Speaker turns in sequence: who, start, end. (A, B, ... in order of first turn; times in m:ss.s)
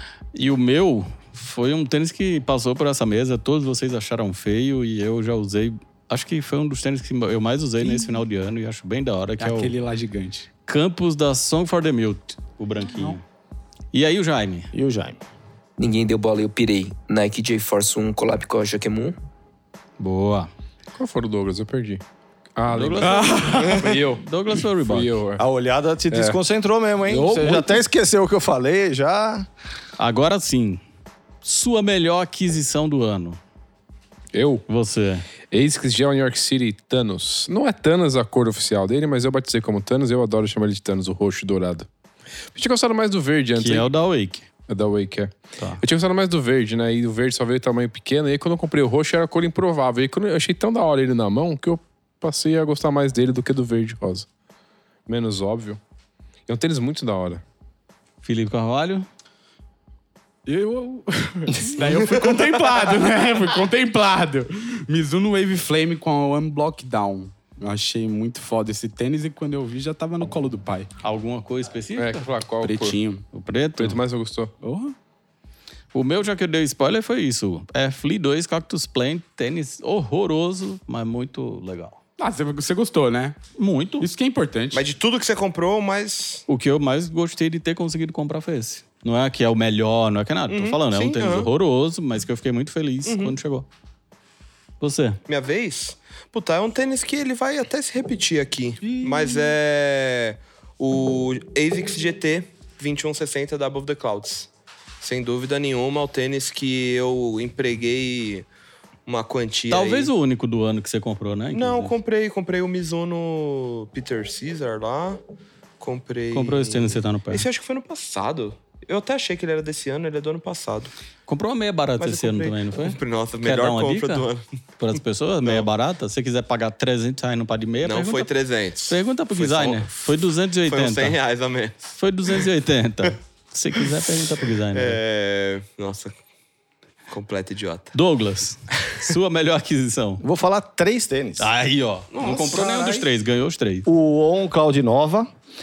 0:00.3-0:09.7 A
0:07.8-0:08.2 B
0:09.4-0:10.5 B
0:10.7-0:13.2 A
0:12.9-0:13.2 B
0:13.9-0:14.7 A
0:14.7-0:15.2 C
0:15.8-0:19.1 D
0:20.0-0:20.5 A
0:21.0-0:22.0 E
0:22.6-0:24.2 E
0:22.7-0:25.2 A
0:23.0-0:23.9 B
0:24.8-0:25.4 E
0:25.4-0:29.5 C
0:26.1-0:26.4 E
0:27.1-0:27.7 E
0:30.0-0:30.8 A
0:31.4-0:33.4 A
0:34.3-0:34.6 E
0:34.7-0:35.3 A
0:35.5-0:41.9 E
0:42.5-0:43.9 E
0:43.6-0:44.5 A
0:44.7-0:54.3 E
0:45.6-0:45.8 A
0:55.1-0:55.8 E
0:56.5-0:57.4 E
0:58.2-0:59.1 A
1:00.5-1:10.9 B
1:11.0-1:12.3 A
1:12.0-1:13.0 E
1:12.6-1:13.2 B
1:13.3-1:14.0 A
1:13.8-1:14.5 E
1:14.6-1:14.9 B
1:15.9-1:22.0 A
1:22.2-1:23.4 B
1:23.6-1:24.1 A
1:24.0-1:24.9 B
1:24.7-1:26.4 F
1:26.5-1:33.7 A
1:30.5-1:31.5 F
1:33.1-1:33.4 F
1:34.8-1:35.2 A
1:35.3-1:44.5 F
1:38.8-1:39.6 B
1:45.0-1:48.5 F
1:49.1-1:50.1 F
1:49.7-1:52.0 A
1:51.5-1:55.2 F
1:55.8-2:00.9 F
1:56.3-1:57.5 A
2:01.3-2:04.3 A
2:02.0-2:04.4 F
2:04.8-2:08.3 A
2:07.8-2:10.0 F
2:08.9-2:11.2 A
2:10.7-2:12.4 F
2:12.0-2:15.0 A
2:14.7-2:16.1 F
2:17.1-2:18.0 F
2:17.9-2:20.2 A
2:20.2-2:21.5 C
2:21.4-2:23.9 A
2:22.1-2:23.1 F
2:23.9-2:25.3 C